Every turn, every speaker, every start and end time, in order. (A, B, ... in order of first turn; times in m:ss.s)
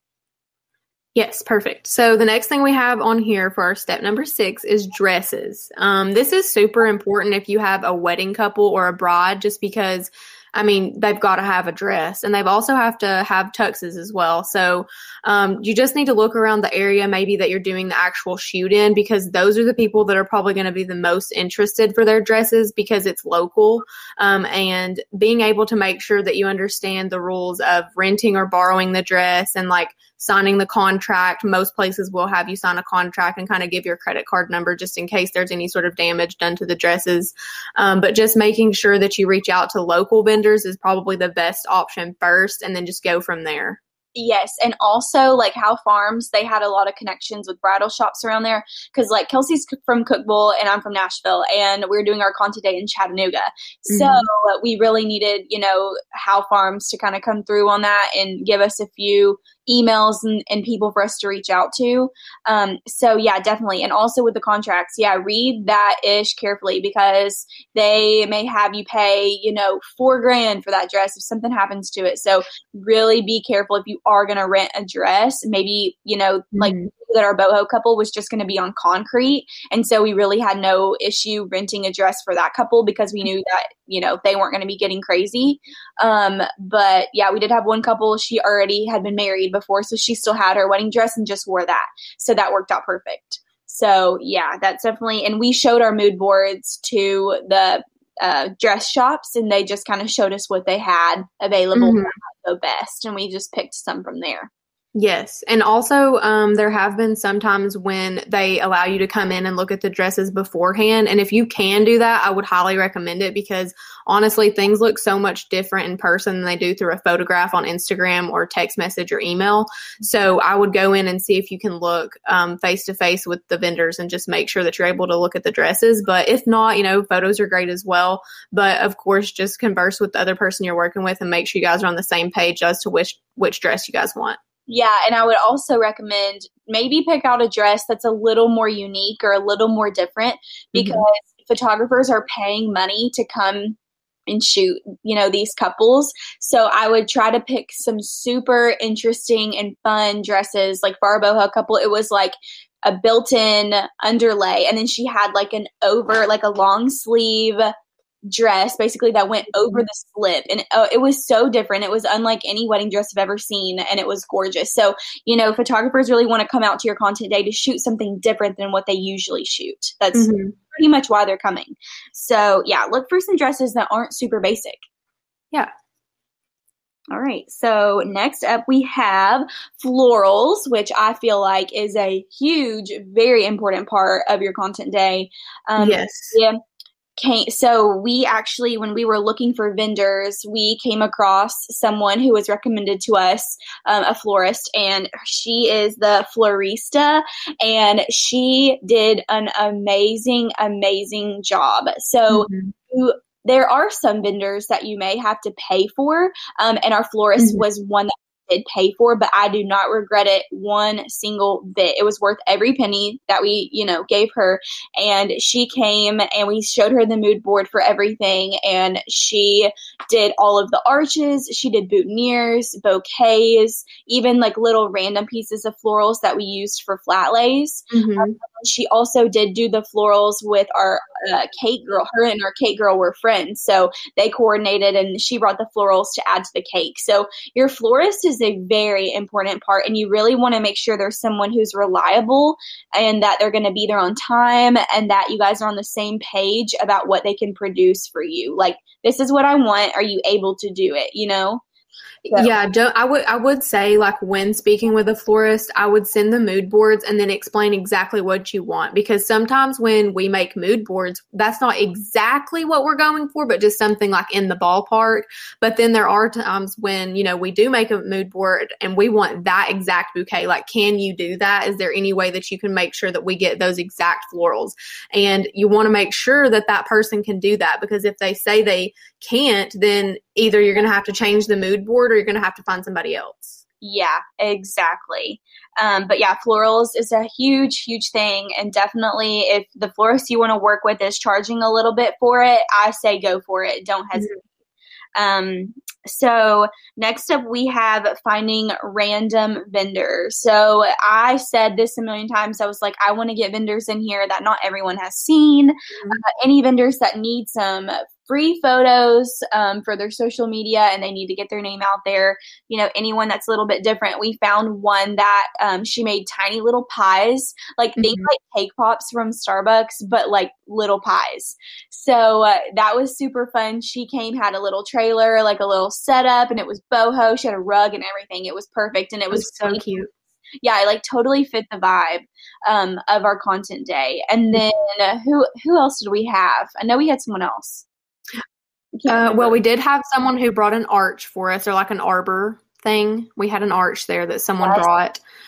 0:01.1-0:43.8 A
0:44.1-1:44.5 B
0:53.9-0:54.2 A
1:16.5-1:16.9 A
1:41.7-1:42.1 A
1:44.9-2:14.4 A
2:14.7-2:23.8 B
2:20.8-2:21.0 A
2:24.3-2:37.7 B
2:38.3-2:54.8 B
2:39.6-2:39.8 A
2:50.1-2:50.6 A
2:57.1-3:06.6 B
3:05.8-3:06.4 A
3:07.2-4:11.6 B
3:22.3-3:22.7 A
3:27.4-3:27.6 A
3:47.9-3:48.3 A
4:12.2-4:43.6 A
4:43.8-4:54.3 B
4:55.2-5:29.9 B
5:05.9-5:06.2 A
5:18.0-5:18.3 A
5:29.3-5:30.1 A
5:30.6-5:37.8 B
5:39.0-5:39.6 B
5:39.1-5:45.2 A